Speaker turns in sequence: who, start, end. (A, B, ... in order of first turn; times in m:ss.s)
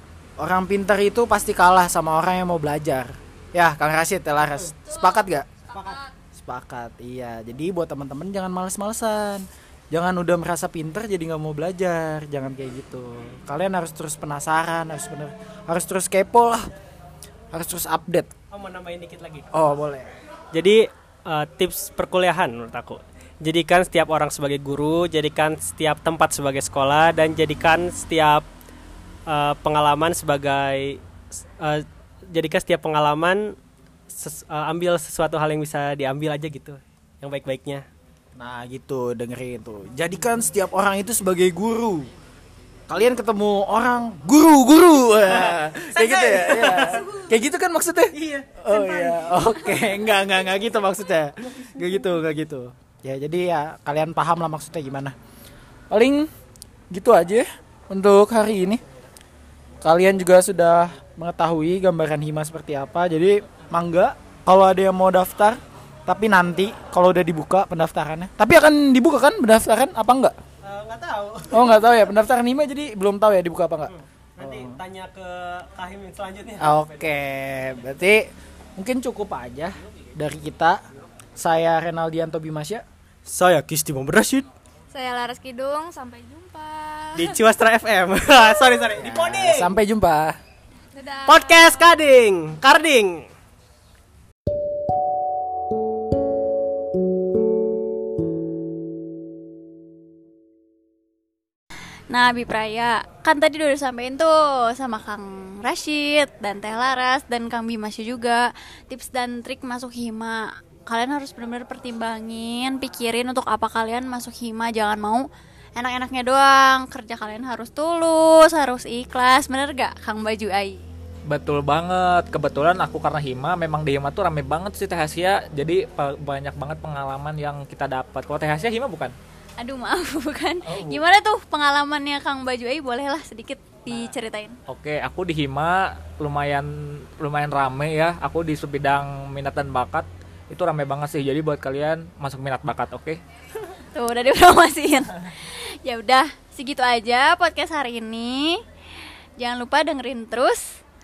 0:00.4-0:05.5 A
0:04.8-0:06.1 B
0:05.7-0:06.0 C
0:06.3-0:16.7 A
0:17.5-0:18.3 A
0:18.5-0:19.5 C
0:19.5-0:20.1 A
0:20.5-0:28.4 C
0:29.3-0:31.0 C
0:31.6-0:33.6 C
0:34.1-0:37.8 C
0:38.4-0:42.1 A
0:42.9-0:55.2 A
0:45.3-0:47.3 C
0:48.1-0:49.9 C
0:51.4-0:52.1 C
0:55.9-0:56.3 A
0:56.9-0:58.8 A
0:59.8-1:10.4 A
1:10.6-1:11.7 C
1:11.5-1:14.8 A
1:13.9-1:16.8 C
1:16.6-1:20.8 A
1:21.4-1:22.8 A
1:23.3-1:24.5 C
1:24.9-1:27.4 B
1:27.2-1:29.8 C
1:29.0-1:30.4 A
1:31.0-1:31.9 B
1:31.3-1:33.3 C
1:42.1-2:00.8 D
2:01.3-2:09.1 E
2:09.6-2:14.6 D
2:10.7-2:11.0 E
2:14.7-2:23.2 E
2:23.9-2:28.6 D
2:29.4-2:30.8 D